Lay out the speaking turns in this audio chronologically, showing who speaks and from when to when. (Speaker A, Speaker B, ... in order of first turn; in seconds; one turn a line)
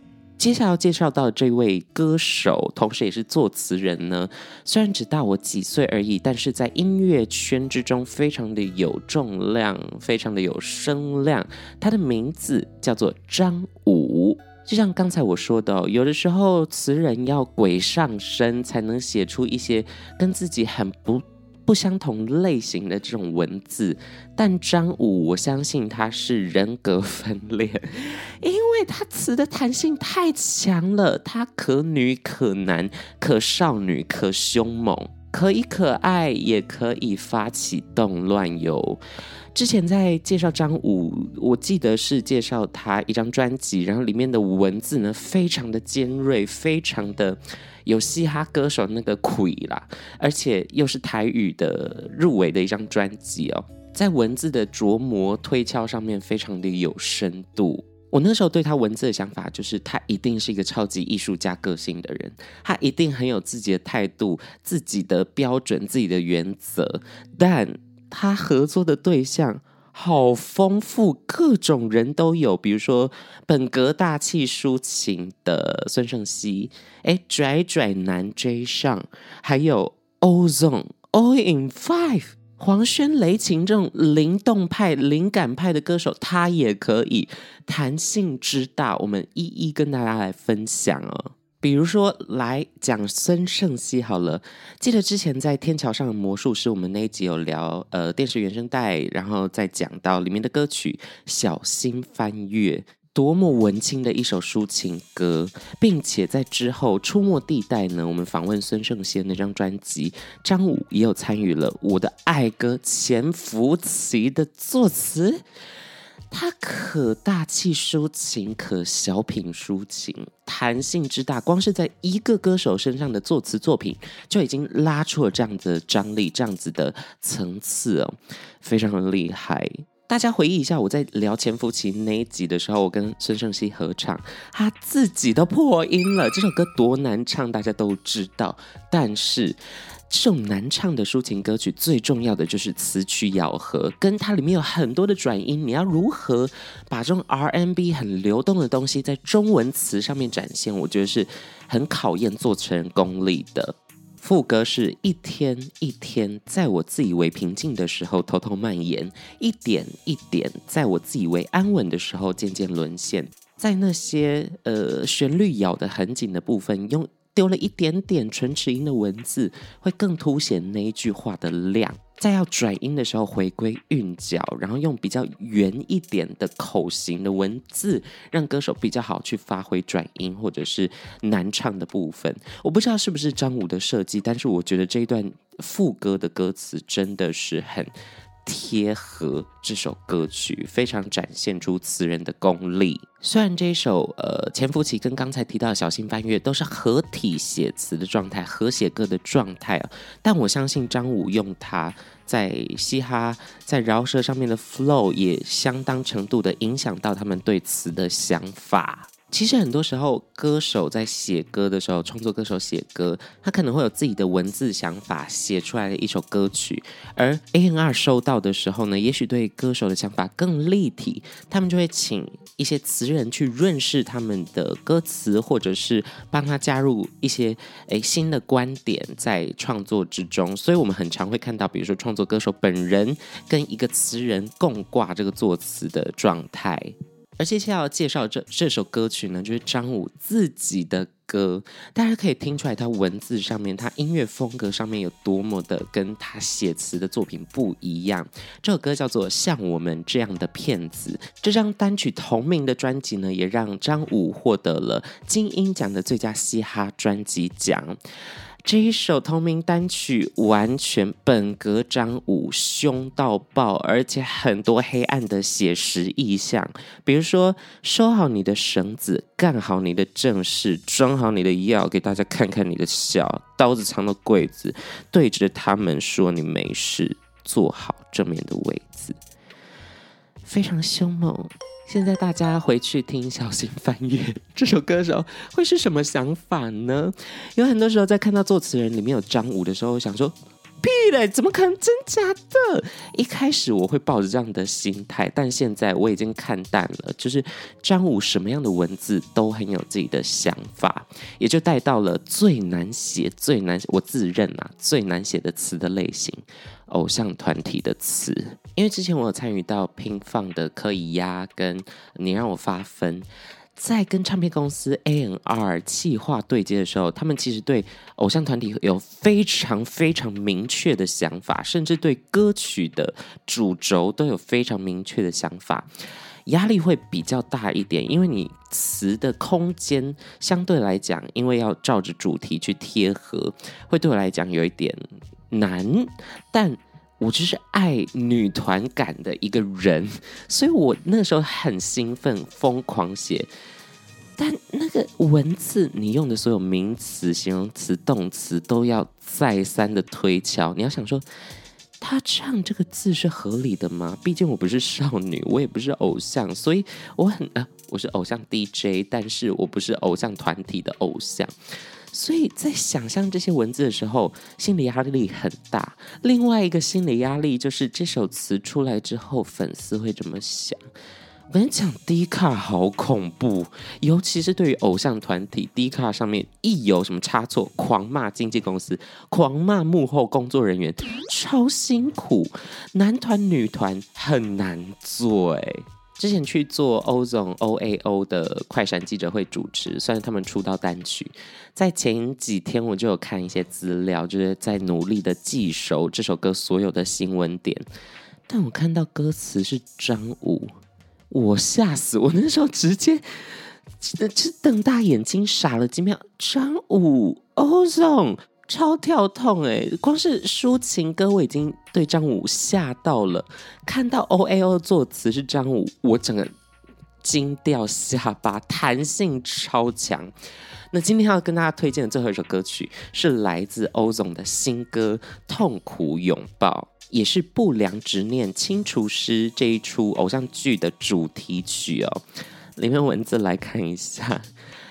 Speaker A: 0.4-39.0
Speaker A: 39.5-115.4
Speaker A: 116.3-139.6
Speaker A: 140.1-187.9
Speaker A: 188.4-257.9
Speaker A: 258.6-279.2
Speaker A: 280.4-325.9
Speaker A: 326.4-335.0
Speaker A: 335.5-343.5
Speaker A: 344.4-351.2
Speaker A: 352.0-361.5
Speaker A: 362.1-370.8
Speaker A: 371.5-397.8
Speaker A: 398.5-400.7
Speaker A: 401.3-403.2
Speaker A: 404.0-416.5
Speaker A: 417.2-420.3
Speaker A: 420.9-432.2
Speaker A: 432.8-434.4